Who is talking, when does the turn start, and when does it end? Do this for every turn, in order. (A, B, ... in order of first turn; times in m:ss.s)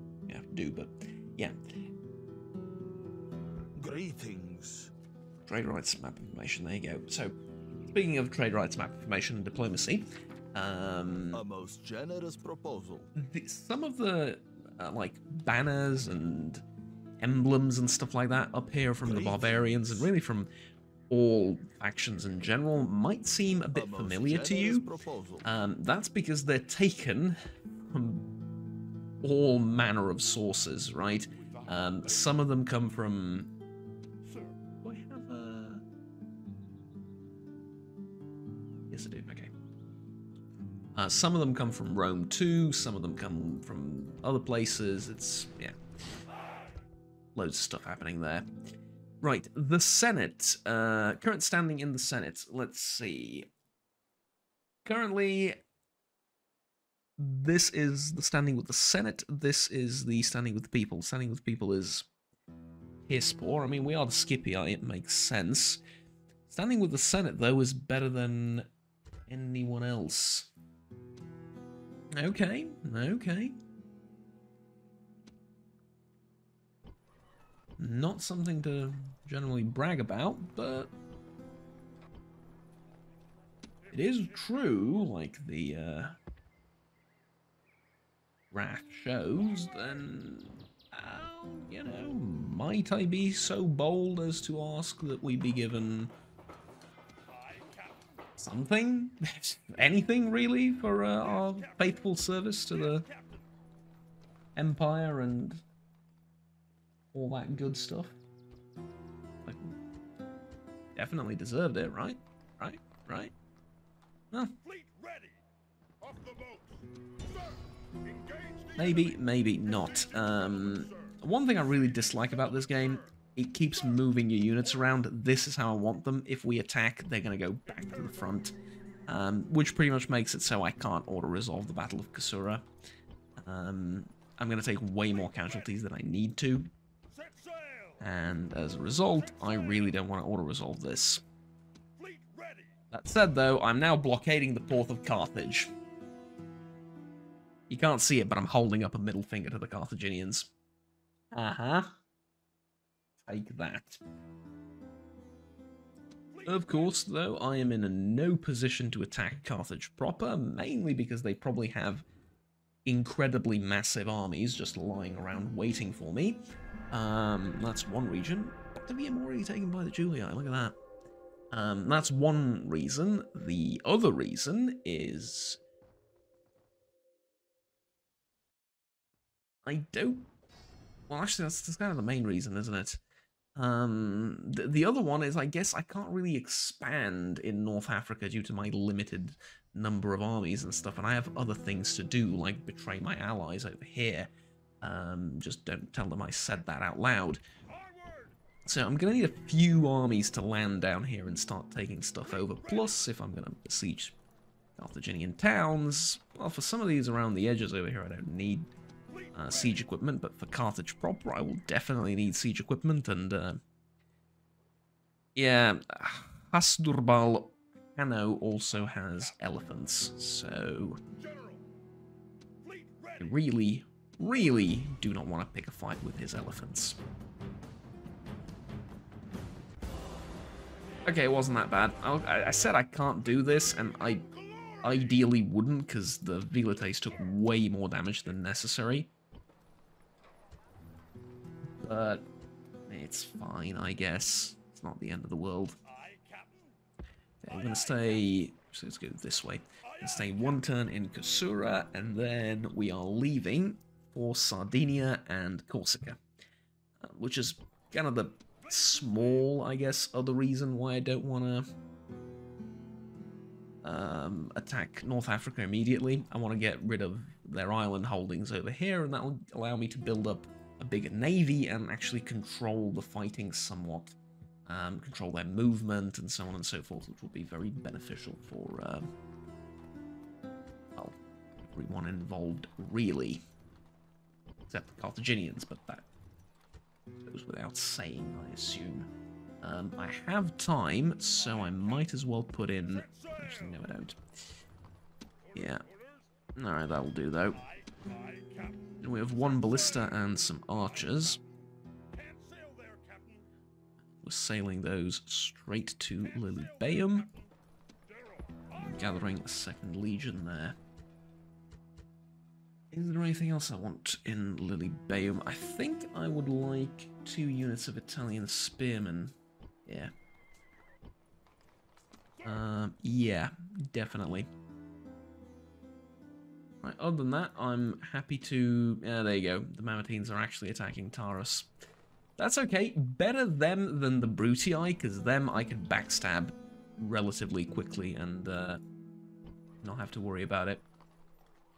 0:00.3-0:01.6 A
0:03.8-0:04.9 B
0:05.5-0:07.3 A
0:07.9-0:11.4 A
0:11.3-0:13.1 B
0:13.2-0:16.6 A
0:17.2-0:20.5 A
0:19.0-0:20.1 B
0:21.1-0:24.9 A
0:23.7-0:25.5 B
0:25.4-0:27.4 A
0:27.9-0:28.3 A
0:29.2-0:33.5 A
0:31.3-0:32.5 C
0:34.2-0:34.6 C
0:34.8-0:35.8 A
0:38.9-0:39.5 A
0:41.0-0:45.8 A
0:47.4-0:48.5 A
0:49.2-0:53.5 A
0:54.8-0:55.6 A
0:57.2-1:02.1 A
1:03.1-1:05.8 A
1:06.5-1:08.7 A
1:09.3-1:10.5 A
1:12.1-1:13.6 A
1:17.8-1:20.9 A
1:23.9-1:26.2 A
1:28.5-1:36.1 A
1:38.4-1:43.1 A
1:44.6-1:45.6 A
1:47.1-1:48.1 A
1:49.4-1:49.7 A
1:51.0-1:53.3 A
1:54.7-1:55.4 C
1:56.0-1:56.8 C
1:58.0-1:59.1 C
1:58.8-2:08.6 A
2:09.1-2:12.7 A
2:13.4-2:16.7 A
2:18.0-2:21.2 A
2:22.0-2:22.7 C
2:22.9-2:25.7 A
2:27.7-2:30.5 A
2:31.3-2:32.0 A
2:33.3-2:34.0 A
2:36.4-2:42.1 A
2:42.9-2:50.8 A
2:51.5-2:55.6 A
2:59.6-3:00.3 A
3:01.1-3:03.0 A
3:03.6-3:17.4 A
3:18.7-3:24.2 A
3:24.8-3:28.7 A
3:29.3-3:33.6 A
3:35.4-3:41.0 A
3:43.2-3:47.0 A
3:51.1-3:54.3 A
3:54.8-3:59.1 A
4:01.8-4:02.3 A
4:02.9-4:05.8 A
4:07.4-4:16.2 A
4:17.0-4:21.7 A
4:23.8-4:39.1 A
4:41.0-4:43.4 A
4:44.7-4:46.1 A
4:47.2-4:49.1 A
4:49.6-4:54.2 A
4:55.5-4:55.8 A
4:56.6-4:57.6 A
4:59.0-5:01.4 A
5:02.1-5:03.4 C
5:04.2-5:07.3 A
5:08.3-5:08.6 C
5:08.8-5:10.8 A
5:12.9-5:20.1 A
5:22.4-5:24.5 A
5:26.8-5:31.7 A
5:32.4-5:38.8 A
5:39.8-5:40.8 A